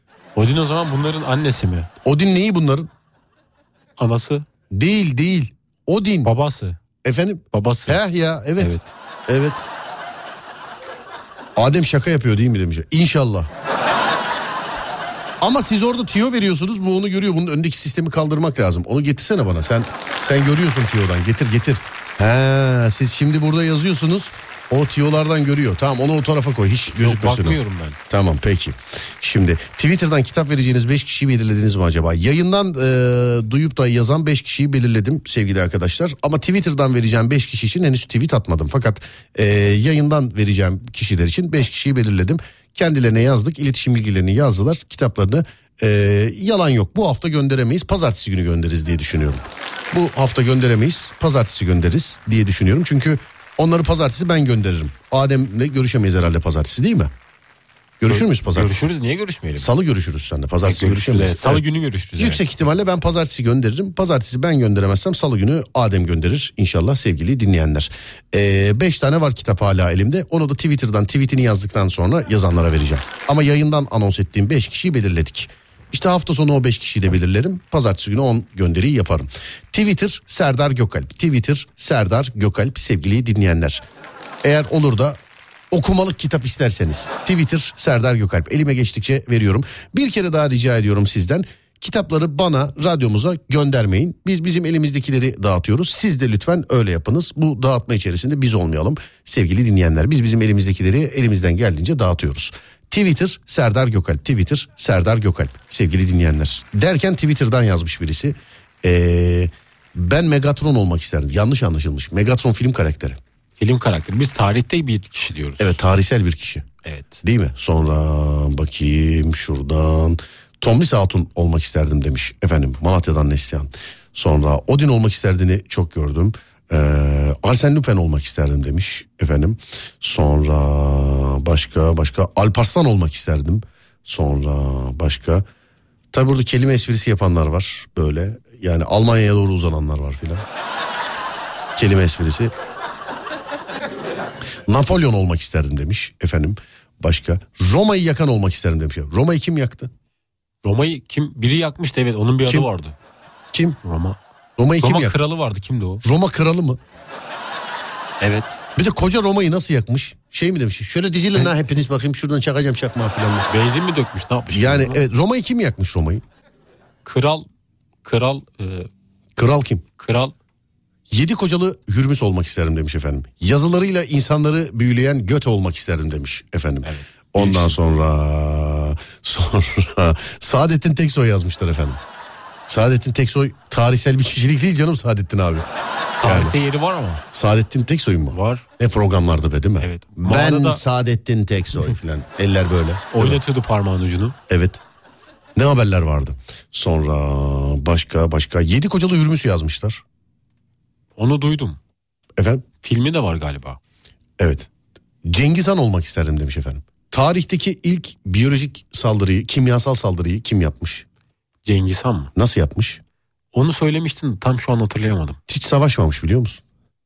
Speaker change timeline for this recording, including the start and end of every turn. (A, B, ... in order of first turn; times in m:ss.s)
0:00.4-0:01.9 A
0:02.0-0:02.9 B
0:04.0-0:04.4 A
0:04.7-0:06.3 B
0:06.2-0:06.8 A
0:07.0-0:08.7 B
0:07.5-0:08.0 A
0:08.6-0:08.9 A
0:09.3-0:09.7 B
0:11.6-0:13.5 B
0:15.4-0:57.1 B
0:27.0-0:28.0 A
0:58.0-0:58.8 B
0:58.1-0:59.7 A
0:59.6-1:01.6 B
1:00.6-1:02.4 A
1:02.2-1:23.8 B
1:24.4-1:25.2 B
1:25.7-1:53.2 B
1:53.6-1:55.8 A
1:55.6-1:56.6 B
1:56.8-1:57.2 A
1:57.2-2:15.4 B
2:16.1-2:20.4 B
2:21.7-2:22.5 B
2:24.6-2:29.9 B
2:30.6-2:32.9 A
2:33.5-2:33.8 B
2:33.8-2:34.2 A
2:34.6-2:35.2 B
2:34.8-2:36.0 A
2:36.0-2:36.8 B
2:38.2-2:38.6 A
2:38.8-2:43.5 B
2:43.5-2:45.0 A
2:44.5-2:46.2 B
2:47.0-2:47.4 A
2:48.0-2:48.9 A
2:49.4-2:49.8 B
2:50.0-2:50.3 A
2:51.1-3:02.0 B
2:56.8-2:57.8 A
3:02.7-3:05.6 B
3:06.2-3:07.2 A
3:06.2-3:06.6 B
3:07.3-3:13.4 B
3:08.3-3:08.7 A
3:09.8-3:10.8 A
3:13.1-3:14.4 A
3:14.5-3:14.8 B
3:15.5-3:20.0 B
3:21.2-3:21.8 A
3:22.4-3:22.6 B
3:22.8-3:23.8 A
3:24.4-3:24.7 B
3:25.2-3:31.0 B
3:31.6-3:32.3 A
3:32.3-3:33.0 B
3:33.5-3:35.4 A
3:35.5-3:36.6 B